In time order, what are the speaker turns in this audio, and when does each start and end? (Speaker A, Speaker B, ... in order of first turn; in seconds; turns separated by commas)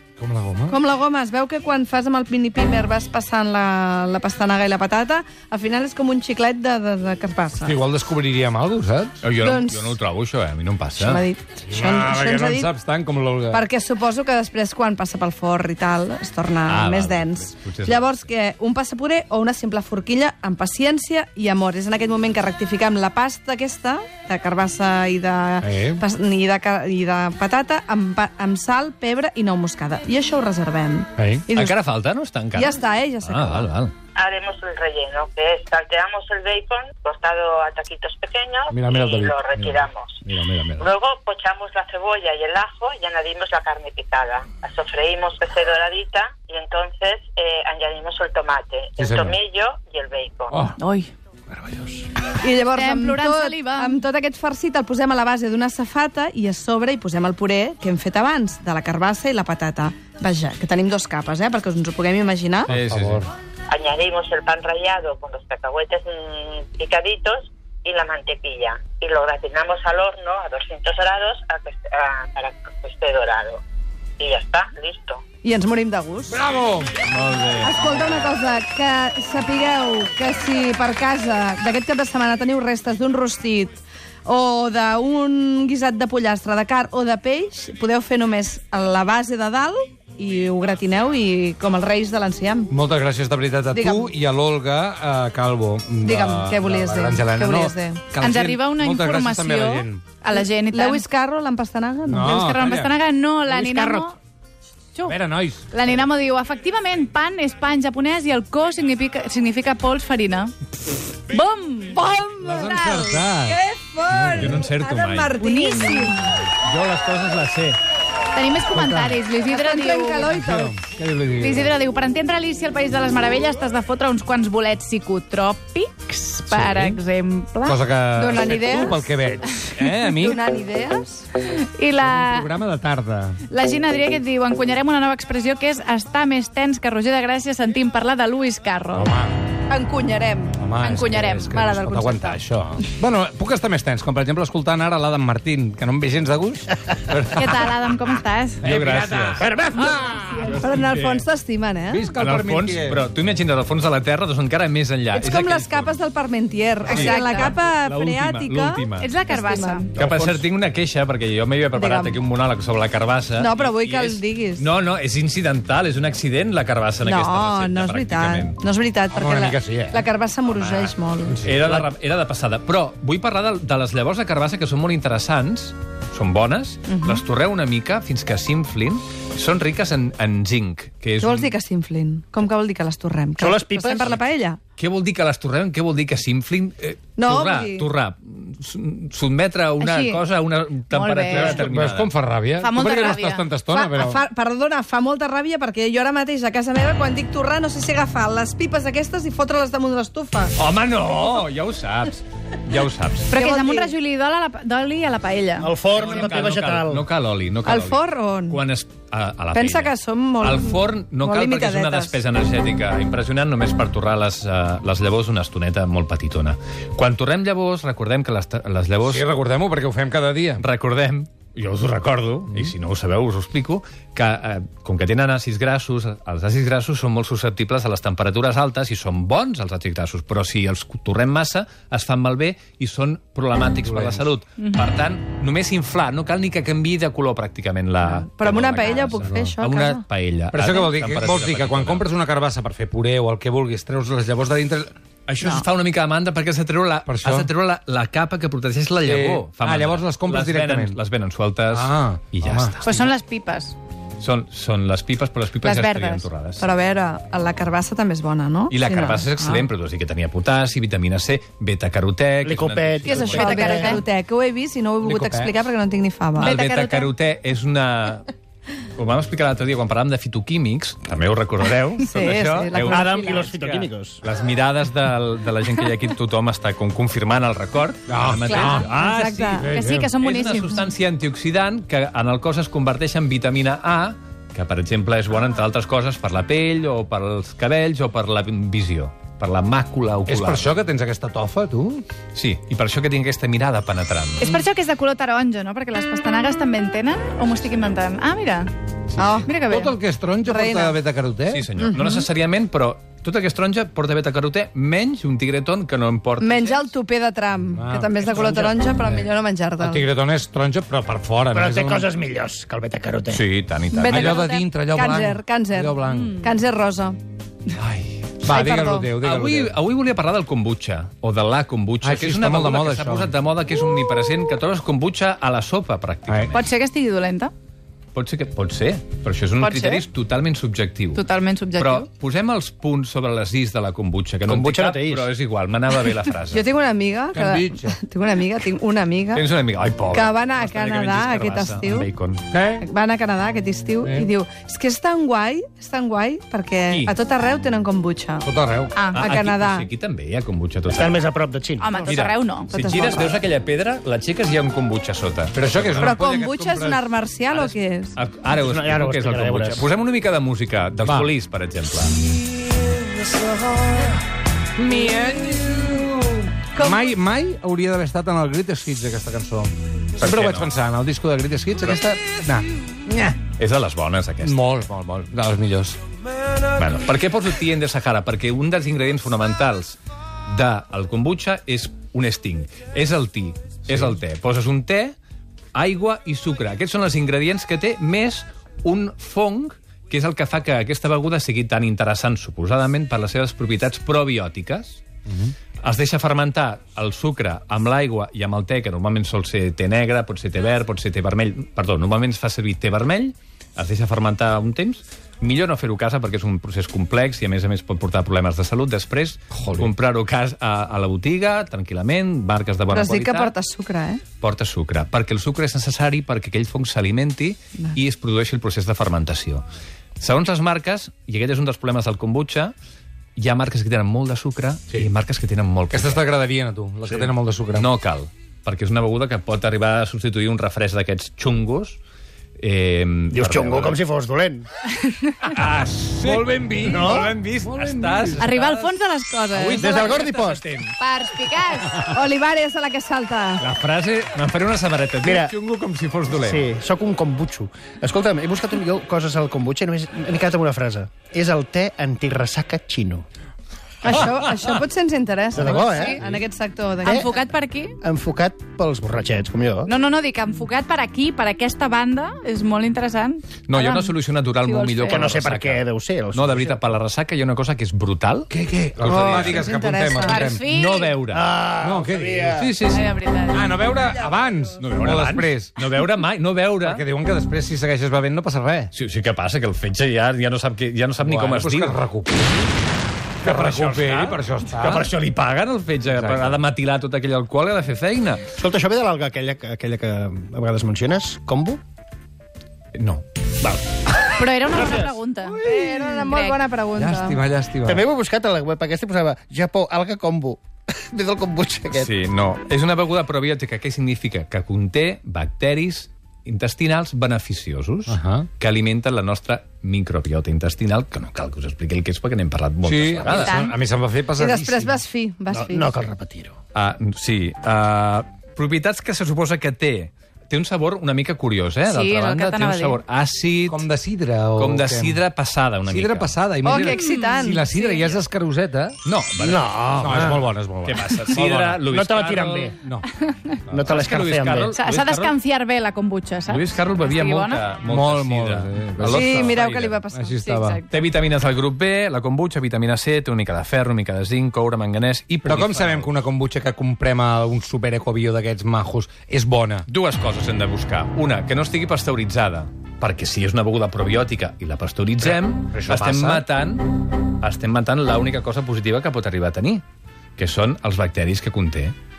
Speaker A: 0.2-0.8, Speaker B: 0.7-7.8, Speaker A: 7.6-9.2, Speaker C: 9.2-11.2, Speaker B: 9.4-10.0, Speaker B: 11.0-12.7, Speaker A: 11.7-13.6, Speaker B: 13.5-31.8, Speaker C: 16.7-18.1, Speaker A: 25.6-26.0, Speaker A: 31.2-31.5, Speaker C: 31.5-33.9, Speaker B: 32.5-33.7, Speaker D: 34.2-40.2, Speaker A: 38.7-40.9, Speaker D: 40.8-50.6, Speaker A: 49.0-49.4, Speaker A: 50.5-50.8, Speaker E: 50.8-51.1, Speaker B: 52.3-62.7, Speaker E: 52.7-54.0, Speaker A: 62.7-63.3, Speaker C: 62.7-63.3, Speaker D: 63.7-73.6, Speaker D: 74.2-75.2, Speaker B: 75.4-76.4, Speaker A: 76.3-76.9, Speaker C: 77.0-78.3, Speaker B: 77.6-92.7, Speaker A: 92.7-100.0, Speaker B: 93.7-94.1, Speaker B: 96.0-98.0, Speaker E: 98.2-101.0, Speaker B: 100.3-102.4, Speaker A: 102.1-103.0, Speaker E: 102.2-104.2, Speaker B: 103.6-104.0, Speaker A: 105.0-105.7, Speaker E: 105.7-110.5, Speaker E: 111.2-112.1, Speaker B: 111.9-116.2, Speaker A: 112.4-113.6, Speaker A: 114.1-114.6, Speaker C: 114.4-115.3, Speaker E: 115.3-116.2, Speaker C: 116.5-117.8, Speaker E: 118.3-120.3, Speaker A: 118.7-119.2, Speaker B: 119.5-120.7, Speaker A: 120.3-121.7, Speaker E: 121.4-127.8, Speaker A: 126.5-127.0, Speaker A: 127.6-130.4, Speaker B: 128.2-129.1, Speaker B: 129.8-131.3, Speaker E: 131.4-132.5, Speaker A: 132.0-133.4, Speaker E: 133.5-139.2, Speaker A: 139.0-139.3, Speaker B: 139.7-140.6, Speaker A: 140.6-147.7, Speaker E: 140.8-141.5, Speaker B: 141.5-142.4, Speaker E: 147.3-148.7, Speaker C: 148.6-149.5, Speaker A: 148.6-149.5, Speaker F: 149.4-150.3, Speaker E: 149.7-150.6, Speaker B: 150.1-152.1, Speaker C: 150.4-151.2, Speaker A: 151.9-153.1, Speaker C: 152.2-156.0, Speaker B: 155.1-159.9, Speaker C: 156.9-159.1, Speaker E: 156.9-157.5, Speaker E: 159.0-159.9, Speaker C: 160.0-168.6, Speaker F: 160.0-160.4, Speaker B: 161.8-162.2, Speaker B: 163.4-164.7, Speaker B: 167.0-171.4, Speaker A: 169.1-170.1, Speaker A: 171.3-171.8, Speaker C: 171.4-181.5, Speaker B: 176.9-177.2, Speaker B: 181.2-184.6, Speaker F: 183.4-184.2, Speaker C: 184.8-192.1, Speaker B: 187.2-187.9, Speaker B: 189.8-190.1, Speaker E: 189.9-190.2, Speaker E: 190.9-191.6, Speaker A: 191.3-194.2, Speaker E: 192.6-193.4, Speaker B: 193.7-200.5, Speaker C: 200.6-203.3, Speaker E: 203.3-205.7, Speaker B: 203.3-203.9, Speaker F: 205.6-207.1, Speaker C: 205.9-219.3, Speaker B: 207.7-208.6, Speaker B: 209.5-212.2, Speaker A: 219.0-220.6, Speaker C: 220.6-242.1, Speaker A: 233.8-234.2, Speaker B: 238.0-240.0, Speaker A: 239.1-239.5, Speaker A: 240.5-244.9, Speaker C: 245.3-252.8, Speaker A: 247.1-247.5, Speaker A: 249.0-251.0, Speaker A: 251.7-252.9, Speaker E: 252.8-253.8, Speaker C: 254.2-256.7, Speaker E: 255.7-256.2, Speaker B: 255.7-259.7, Speaker C: 258.7-263.7, Speaker F: 262.4-264.0, Speaker B: 263.1-266.6, Speaker E: 263.3-264.0, Speaker A: 265.0-265.6, Speaker E: 266.4-267.1, Speaker C: 266.4-268.3, Speaker C: 269.0-279.7, Speaker B: 272.0-273.5, Speaker F: 272.8-274.2, Speaker A: 278.1-278.9, Speaker E: 278.5-278.9, Speaker B: 278.6-279.7, Speaker A: 279.6-280.1, Speaker E: 279.6-280.9, Speaker C: 280.2-290.7, Speaker A: 290.3-292.1, Speaker C: 292.3-294.6, Speaker E: 294.4-298.7, Speaker C: 299.1-299.4, Speaker B: 299.2-299.5, Speaker E: 299.4-299.9, Speaker A: 299.7-301.6, Speaker B: 300.4-301.0, Speaker C: 301.5-306.9, Speaker B: 301.8-302.2, Speaker B: 306.4-310.0, Speaker A: 307.8-309.3, Speaker A: 309.8-312.1, Speaker F: 311.5-313.4, Speaker C: 313.3-314.4, Speaker B: 313.9-317.2, Speaker E: 314.1-314.6, Speaker A: 314.1-316.4, Speaker C: 317.8-318.5, Speaker A: 318.4-319.8, Speaker B: 318.4-319.1, Speaker C: 319.2-326.6, Speaker A: 322.0-323.3, Speaker A: 326.3-326.5, Speaker E: 326.5-327.5, Speaker C: 328.1-331.2, Speaker E: 329.6-330.1, Speaker E: 331.1-332.1, Speaker C: 331.8-336.6, Speaker F: 334.5-335.3, Speaker B: 336.5-339.4, Speaker A: 337.3-338.0, Speaker C: 339.3-342.4, Speaker B: 340.1-342.1, Speaker A: 342.5-342.9, Speaker B: 342.8-348.5, Speaker A: 344.0-344.3, Speaker A: 348.4-348.9, Speaker E: 348.9-349.3, Speaker B: 349.1-349.9, Speaker C: 349.1-351.2, Speaker F: 350.9-351.9, Speaker E: 351.8-352.7, Speaker C: 352.1-356.2, Speaker B: 352.7-353.4, Speaker A: 355.5-357.1, Speaker B: 356.0-358.1, Speaker C: 357.5-362.2, Speaker F: 358.6-359.9, Speaker A: 361.0-361.3, Speaker A: 364.8-373.4, Speaker C: 370.2-370.7, Speaker C: 373.6-374.6, Speaker A: 374.4-376.0, Speaker C: 376.8-380.0, Speaker C: 380.5-385.2, Speaker A: 383.9-384.2, Speaker C: 385.8-395.0, Speaker A: 395.3-395.5, Speaker C: 395.8-413.5, Speaker A: 409.5-409.9, Speaker B: 412.9-414.2, Speaker C: 414.4-419.6, Speaker C: 420.2-422.8, Speaker C: 423.4-426.2, Speaker A: 425.9-427.9, Speaker C: 427.7-432.0, Speaker C: 432.6-434.0, Speaker F: 433.3-434.7, Speaker C: 435.5-438.9, Speaker A: 436.1-438.5, Speaker F: 436.9-437.3, Speaker E: 438.4-440.2, Speaker C: 439.5-440.9, Speaker F: 439.8-440.6, Speaker E: 441.0-442.1, Speaker B: 442.0-443.6, Speaker C: 443.6-446.7, Speaker F: 445.2-445.5, Speaker F: 446.3-453.2, Speaker B: 454.0-457.3, Speaker F: 455.6-456.4, Speaker E: 455.8-456.2, Speaker E: 457.0-458.0, Speaker F: 457.1-457.4, Speaker F: 458.0-459.9, Speaker E: 459.9-465.3, Speaker C: 463.7-469.7, Speaker F: 465.1-466.8, Speaker A: 468.5-470.6, Speaker B: 469.1-470.5, Speaker E: 470.2-471.2, Speaker C: 470.7-471.5, Speaker F: 471.3-472.7, Speaker A: 471.8-472.7, Speaker C: 472.5-473.1, Speaker E: 472.9-473.7, Speaker A: 473.5-475.7, Speaker C: 474.8-477.0, Speaker A: 476.8-478.9, Speaker C: 478.9-482.0, Speaker A: 481.2-482.7, Speaker C: 483.4-488.5, Speaker A: 483.4-485.1, Speaker A: 486.1-486.6, Speaker F: 488.6-491.8, Speaker C: 493.0-493.2, Speaker E: 494.4-496.6, Speaker F: 494.7-495.2, Speaker B: 495.5-497.4, Speaker A: 497.0-498.1, Speaker F: 497.9-502.1, Speaker C: 501.9-513.6, Speaker A: 508.1-508.5, Speaker A: 512.8-515.0, Speaker E: 513.3-513.7, Speaker B: 514.4-516.0, Speaker F: 515.5-516.6, Speaker C: 516.7-523.9, Speaker E: 521.8-523.0, Speaker A: 523.7-525.2, Speaker C: 524.6-526.3, Speaker A: 525.9-529.0, Speaker B: 526.6-528.0, Speaker E: 526.7-527.4, Speaker C: 529.0-532.8, Speaker F: 529.4-530.4, Speaker A: 530.0-531.8, Speaker F: 531.9-532.8, Speaker A: 532.8-533.1, Speaker E: 533.3-533.6, Speaker F: 533.7-534.7, Speaker C: 533.9-535.4, Speaker E: 534.7-537.6, Speaker C: 536.5-540.0, Speaker A: 537.9-540.8, Speaker B: 539.1-540.4, Speaker E: 540.5-541.0, Speaker C: 540.9-546.1, Speaker A: 545.5-549.9, Speaker C: 549.9-559.8, Speaker A: 555.3-556.5, Speaker C: 560.4-562.0